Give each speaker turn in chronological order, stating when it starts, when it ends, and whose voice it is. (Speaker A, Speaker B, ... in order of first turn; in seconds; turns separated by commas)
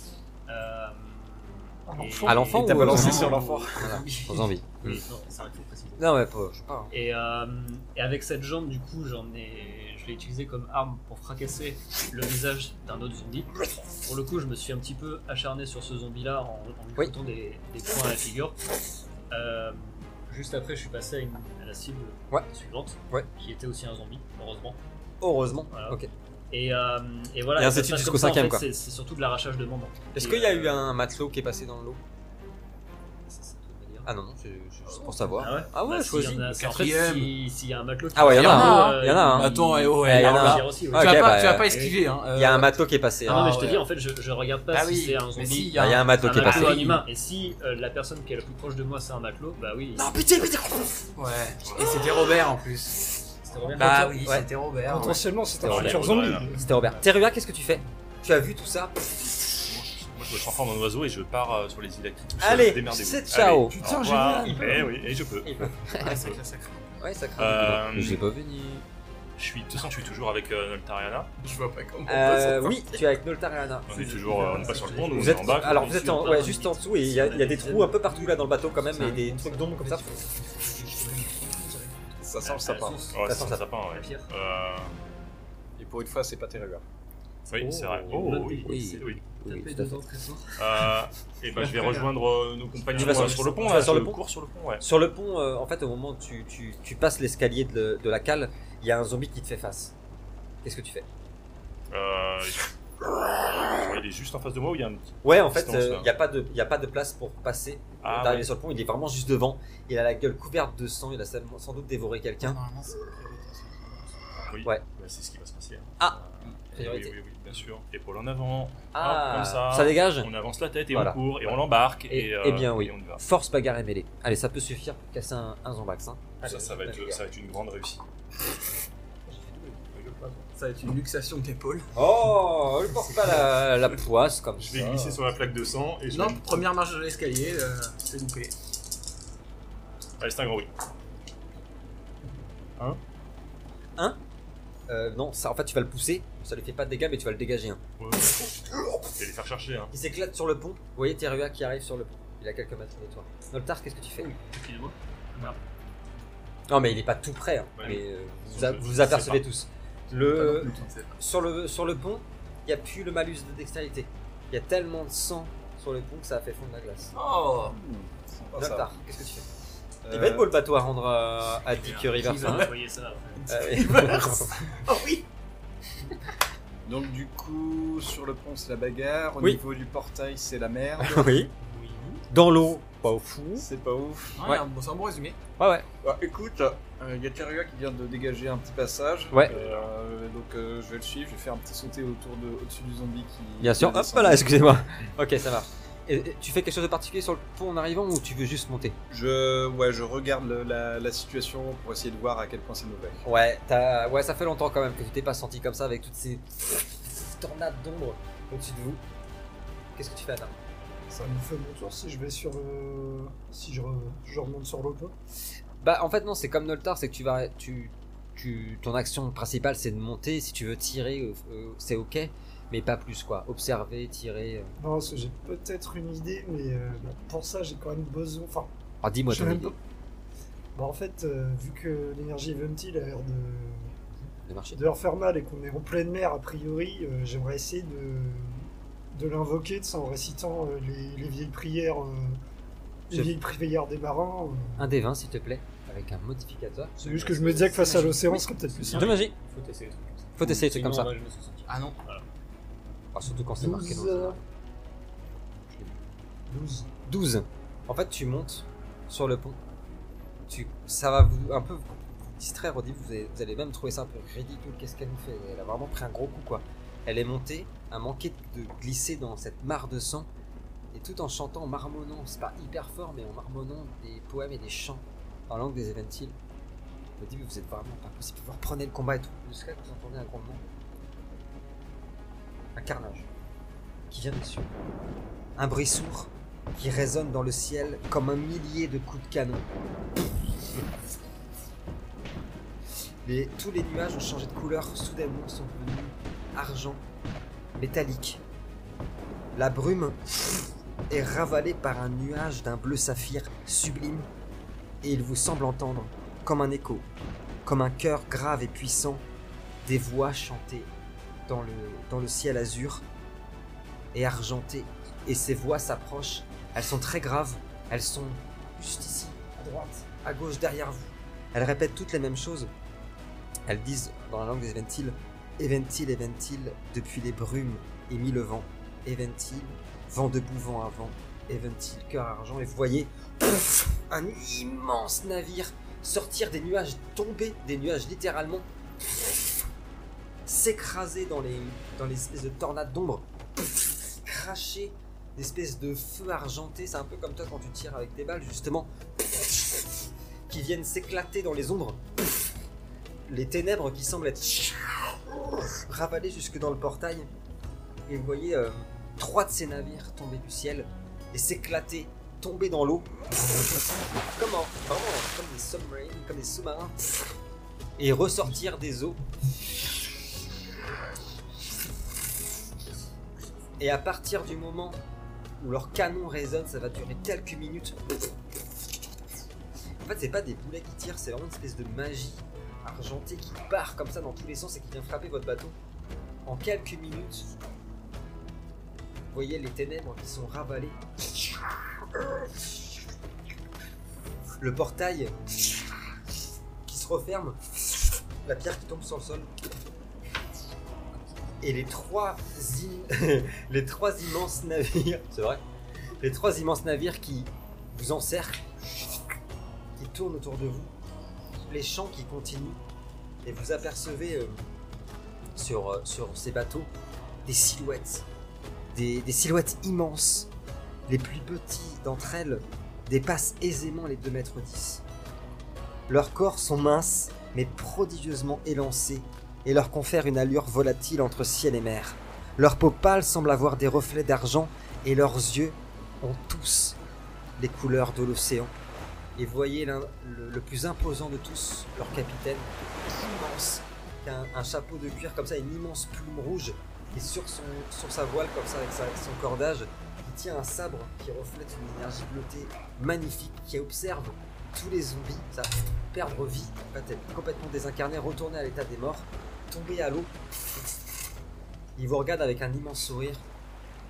Speaker A: 0.5-6.2, Speaker B: 1.9-3.3, Speaker C: 2.3-5.0, Speaker D: 2.6-4.0, Speaker C: 6.0-6.9, Speaker A: 6.9-18.6, Speaker A: 19.3-24.8, Speaker C: 25.2-26.1, Speaker A: 25.7-26.0, Speaker A: 26.5-30.9, Speaker C: 27.6-28.7, Speaker C: 30.1-32.0, Speaker A: 33.3-34.1, Speaker C: 34.0-36.5, Speaker E: 34.9-35.7, Speaker A: 35.4-42.0, Speaker E: 36.5-37.4, Speaker C: 38.1-41.8, Speaker E: 38.2-43.9, Speaker C: 42.3-43.5, Speaker A: 43.3-50.1, Speaker E: 44.7-47.0, Speaker C: 45.8-47.0, Speaker C: 50.0-51.0, Speaker E: 51.2-53.1, Speaker F: 51.6-52.0, Speaker A: 53.4-54.2, Speaker C: 53.6-54.5, Speaker E: 53.7-55.2, Speaker B: 54.9-56.7, Speaker F: 55.0-56.7, Speaker C: 55.6-59.3, Speaker F: 59.7-66.4, Speaker C: 62.4-63.8, Speaker B: 63.8-64.9, Speaker C: 64.4-64.9, Speaker C: 65.4-66.2, Speaker E: 66.0-66.9, Speaker C: 67.0-68.9, Speaker F: 67.4-68.2, Speaker F: 69.4-71.3, Speaker E: 71.4-72.8, Speaker C: 72.1-73.9, Speaker F: 73.9-76.0, Speaker A: 73.9-78.3, Speaker E: 74.0-76.3, Speaker C: 75.1-80.2, Speaker E: 78.1-82.2, Speaker A: 79.0-79.3, Speaker D: 82.2-83.1, Speaker A: 82.4-84.3, Speaker F: 83.1-84.9, Speaker C: 83.3-83.6, Speaker D: 85.8-86.8, Speaker C: 87.5-90.0, Speaker F: 87.5-89.2, Speaker A: 88.1-90.6, Speaker F: 90.6-94.8, Speaker A: 91.6-92.1, Speaker A: 92.9-93.6, Speaker C: 93.0-94.2, Speaker C: 94.8-99.9, Speaker C: 100.6-101.1, Speaker F: 101.9-102.7, Speaker F: 103.5-106.1, Speaker C: 105.2-112.6, Speaker F: 108.0-108.5, Speaker E: 112.4-114.0, Speaker F: 114.5-123.2, Speaker C: 116.8-117.2, Speaker C: 118.9-120.3, Speaker C: 120.9-121.6, Speaker C: 122.1-127.2, Speaker F: 126.4-128.0, Speaker E: 130.6-131.9, Speaker C: 131.9-134.9, Speaker F: 134.6-136.7, Speaker D: 134.6-135.2, Speaker E: 136.1-138.5, Speaker F: 140.2-140.7, Speaker C: 144.9-147.8, Speaker F: 148.0-149.9, Speaker C: 149.9-154.3, Speaker A: 154.2-155.6, Speaker C: 156.7-167.1, Speaker F: 157.8-159.4, Speaker E: 160.1-161.2, Speaker E: 167.1-167.8, Speaker D: 167.7-168.9, Speaker C: 168.5-169.5, Speaker D: 170.1-170.5, Speaker C: 170.1-172.7, Speaker A: 171.8-173.5, Speaker E: 171.9-172.8, Speaker E: 173.4-175.2, Speaker C: 173.5-174.6, Speaker D: 176.9-181.4, Speaker C: 181.0-181.5, Speaker E: 181.7-182.2, Speaker C: 182.3-183.7, Speaker D: 183.6-184.4, Speaker E: 184.4-185.4, Speaker C: 185.6-185.9, Speaker D: 186.0-194.5, Speaker F: 189.5-189.9, Speaker C: 193.6-199.0, Speaker D: 199.1-203.2, Speaker C: 203.2-209.0, Speaker C: 210.0-210.6, Speaker B: 211.2-215.2, Speaker C: 215.8-224.7, Speaker B: 224.8-228.7, Speaker C: 229.0-229.8, Speaker B: 229.3-229.8, Speaker B: 230.8-234.0, Speaker C: 234.4-234.8, Speaker B: 234.7-242.4, Speaker C: 243.1-243.3, Speaker B: 243.1-244.9, Speaker C: 244.8-246.9, Speaker A: 247.0-252.2, Speaker B: 247.0-249.2, Speaker C: 248.9-249.3, Speaker C: 250.4-251.1, Speaker E: 251.7-252.0, Speaker C: 253.1-254.4, Speaker B: 253.6-254.4, Speaker B: 256.5-256.9, Speaker C: 257.0-259.6, Speaker C: 260.5-270.3, Speaker C: 270.9-276.4, Speaker C: 277.2-280.6, Speaker C: 282.8-283.3, Speaker C: 284.1-284.7, Speaker C: 285.6-289.7, Speaker C: 293.2-297.0, Speaker C: 297.8-298.4, Speaker C: 299.6-300.2, Speaker C: 301.1-304.3, Speaker C: 305.0-307.1, Speaker C: 307.6-309.2, Speaker C: 309.8-310.9, Speaker C: 311.5-313.0, Speaker C: 314.1-322.7, Speaker C: 323.7-338.7, Speaker C: 340.4-343.2, Speaker C: 344.2-348.9, Speaker C: 350.5-352.0, Speaker C: 353.3-354.8, Speaker C: 355.6-357.3, Speaker C: 358.1-363.1, Speaker C: 364.4-367.0, Speaker C: 368.0-369.2, Speaker C: 373.8-375.0, Speaker C: 375.6-378.0, Speaker C: 380.0-385.8, Speaker C: 386.5-387.5, Speaker C: 389.3-391.0, Speaker C: 392.1-392.4, Speaker C: 394.6-395.4, Speaker C: 396.9-399.5, Speaker C: 401.6-405.6, Speaker C: 406.2-409.0, Speaker C: 410.0-410.9, Speaker C: 411.7-412.8, Speaker C: 413.4-414.6, Speaker C: 415.6-416.9, Speaker C: 417.4-418.3, Speaker C: 418.9-420.5, Speaker C: 421.1-425.0, Speaker C: 426.1-437.0, Speaker C: 437.6-438.7, Speaker C: 439.4-460.3, Speaker C: 462.0-463.5